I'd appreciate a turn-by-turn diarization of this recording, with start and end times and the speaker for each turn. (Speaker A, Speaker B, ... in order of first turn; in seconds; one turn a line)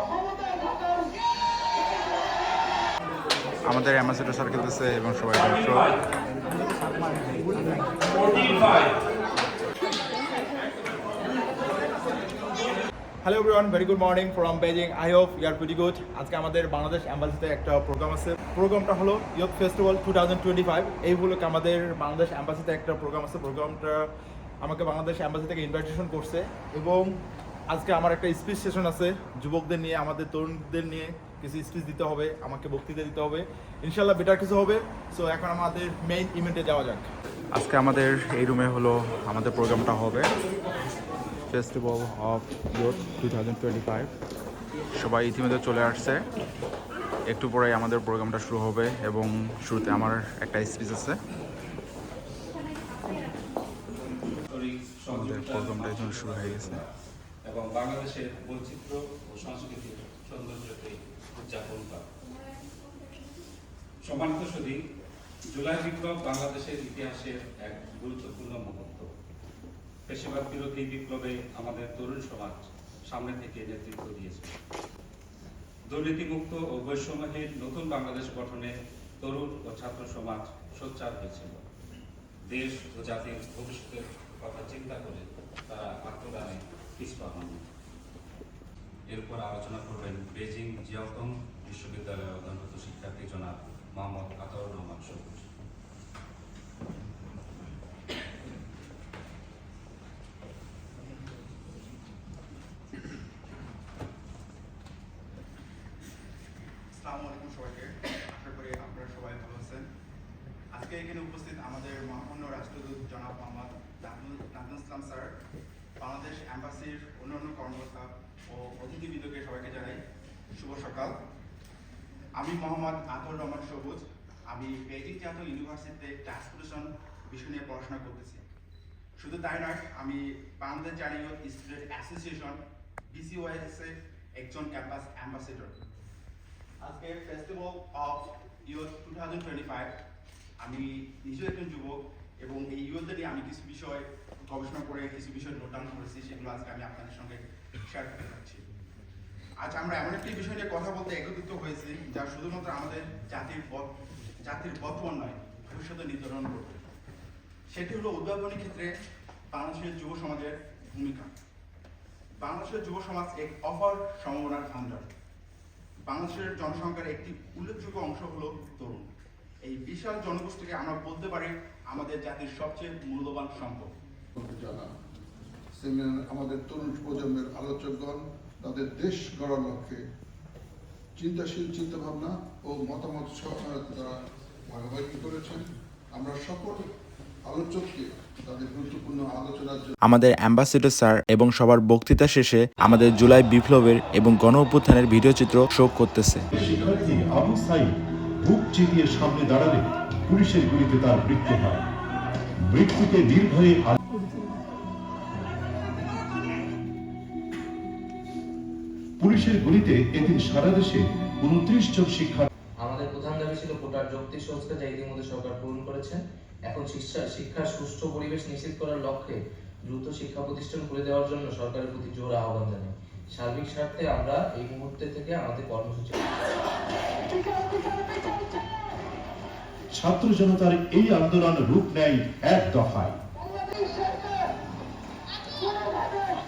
Speaker A: 3.6-5.9
Speaker A: 13.2-24.1
Speaker A: 24.6-27.1
Speaker A: 27.7-40.3
Speaker A: 41.5-44.1
Speaker A: 45.0-46.2
Speaker A: 47.3-51.2
Speaker B: 54.5-56.9
Speaker A: 55.1-56.8
Speaker B: 57.5-62.0
Speaker B: 64.0-64.8
Speaker B: 65.5-69.1
Speaker B: 70.1-74.6
Speaker B: 75.9-81.6
Speaker B: 82.5-87.6
Speaker B: 89.1-95.5
Speaker A: 106.9-109.9
Speaker A: 110.7-115.3
Speaker A: 116.0-120.0
Speaker A: 120.5-121.2
Speaker A: 122.3-128.4
Speaker A: 129.2-135.8
Speaker A: 136.8-139.9
Speaker A: 140.6-148.6
Speaker A: 149.6-153.9
Speaker A: 154.4-156.8
Speaker A: 157.7-158.9
Speaker A: 159.5-161.3
Speaker A: 162.4-165.1
Speaker A: 166.1-169.1
Speaker A: 169.6-173.9
Speaker C: 174.4-174.9
Speaker C: 175.8-180.0
Speaker C: 181.2-184.2
Speaker C: 184.7-186.9
Speaker C: 187.4-189.9
Speaker D: 190.1-196.4
Speaker E: 196.5-201.8
Speaker C: 196.6-197.1
Speaker E: 202.7-204.0
Speaker E: 209.2-212.5
Speaker F: 212.8-226.2
Speaker E: 230.0-233.2